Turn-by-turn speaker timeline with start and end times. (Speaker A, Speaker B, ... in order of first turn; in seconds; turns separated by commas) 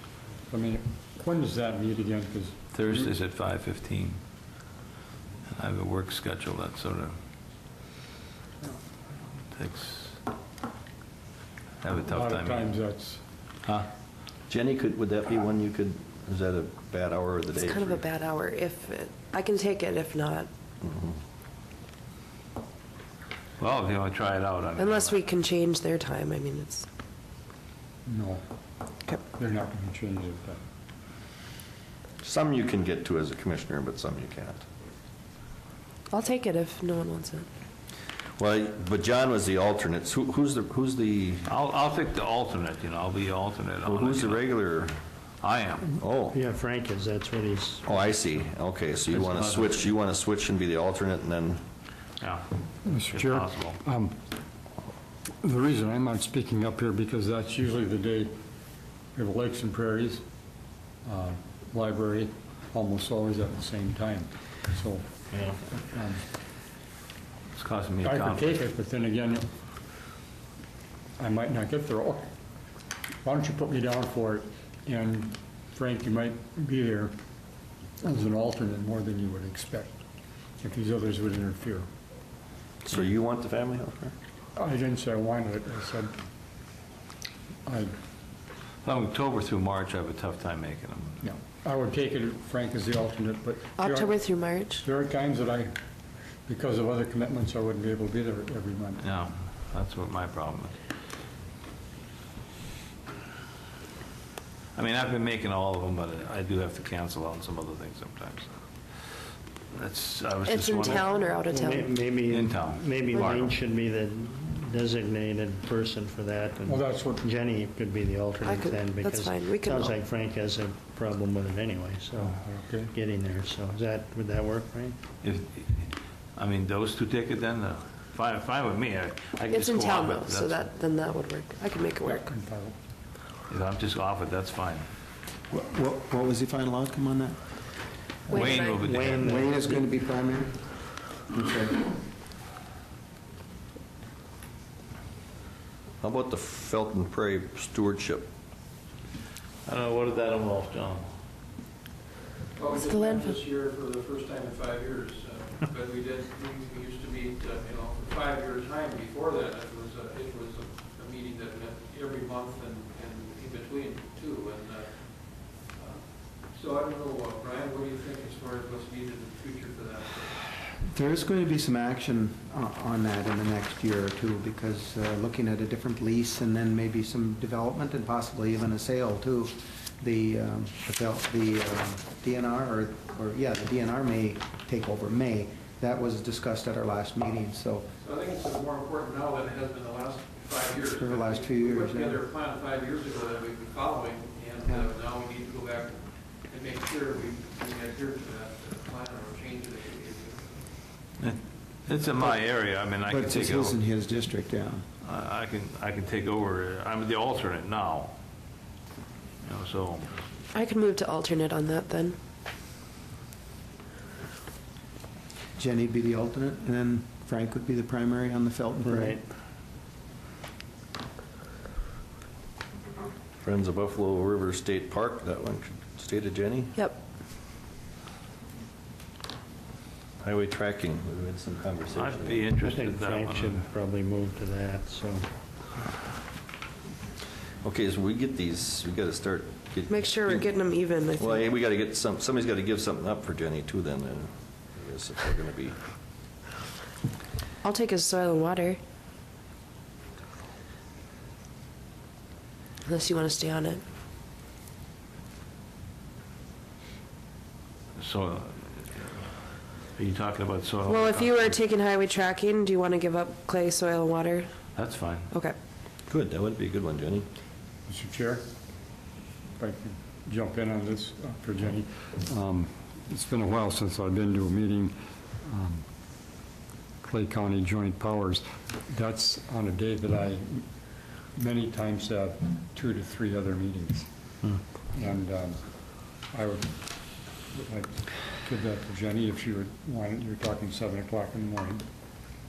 Speaker A: 0.5-2.6, Speaker B: 2.7-4.2, Speaker B: 5.5-7.2, Speaker B: 9.5-10.2, Speaker B: 11.8-12.7, Speaker A: 12.1-13.2, Speaker B: 13.7-13.9, Speaker C: 14.5-18.0, Speaker D: 17.5-20.5, Speaker C: 20.8-21.2, Speaker B: 23.6-25.2, Speaker D: 24.8-26.9, Speaker A: 28.1-28.4, Speaker A: 29.3-30.6, Speaker C: 32.2-34.6, Speaker D: 36.1-37.5, Speaker C: 38.4-41.5, Speaker B: 41.5-44.5, Speaker C: 43.8-44.9, Speaker B: 45.4-45.9, Speaker C: 45.9-46.4, Speaker E: 46.3-48.1, Speaker C: 47.9-51.6, Speaker B: 49.1-49.8, Speaker B: 52.2-52.5, Speaker A: 52.8-54.2, Speaker B: 53.1-53.8, Speaker A: 55.4-58.3, Speaker A: 59.1-60.2, Speaker A: 61.0-65.0, Speaker A: 65.7-66.2, Speaker B: 67.5-68.6, Speaker A: 68.0-69.5, Speaker A: 71.2-72.3, Speaker A: 73.2-77.1, Speaker A: 78.0-79.9, Speaker A: 80.6-81.9, Speaker C: 82.8-84.2, Speaker A: 84.6-86.2, Speaker A: 87.7-87.9, Speaker B: 88.8-91.2, Speaker A: 91.2-94.2, Speaker D: 93.8-94.8, Speaker A: 94.8-95.7, Speaker A: 96.5-99.0, Speaker B: 99.0-100.8, Speaker B: 104.8-108.5, Speaker B: 109.7-111.1, Speaker D: 110.5-112.0, Speaker E: 110.8-125.0, Speaker B: 112.3-113.5, Speaker A: 116.7-117.3, Speaker D: 118.4-120.0, Speaker A: 122.2-122.9, Speaker B: 125.2-130.7, Speaker D: 129.5-132.3, Speaker A: 132.0-132.8, Speaker B: 133.5-134.9, Speaker F: 135.5-137.4, Speaker D: 138.3-138.8, Speaker B: 138.3-139.3, Speaker F: 138.5-142.0, Speaker E: 138.8-139.7, Speaker C: 146.0-148.3, Speaker B: 149.7-151.1, Speaker G: 152.6-170.5, Speaker D: 152.7-153.4, Speaker F: 170.8-187.9, Speaker G: 188.0-200.6, Speaker F: 190.9-192.2, Speaker B: 201.2-203.8, Speaker F: 202.9-204.9, Speaker B: 205.0-208.2, Speaker B: 209.4-210.2, Speaker D: 210.5-212.2, Speaker F: 215.6-219.2, Speaker E: 218.8-219.2, Speaker C: 223.4-226.7, Speaker C: 230.2-232.4, Speaker B: 231.9-233.7, Speaker E: 232.6-235.2, Speaker C: 237.6-240.5, Speaker D: 239.9-241.5, Speaker C: 241.2-245.8, Speaker D: 247.6-248.8, Speaker D: 252.9-253.8, Speaker B: 258.0-259.3, Speaker B: 259.9-261.6, Speaker D: 260.9-265.6, Speaker B: 264.8-265.3, Speaker C: 266.1-267.3, Speaker A: 267.9-268.4, Speaker A: 269.6-275.9, Speaker A: 277.0-280.6, Speaker A: 281.3-284.1, Speaker A: 284.9-286.7, Speaker A: 287.5-291.8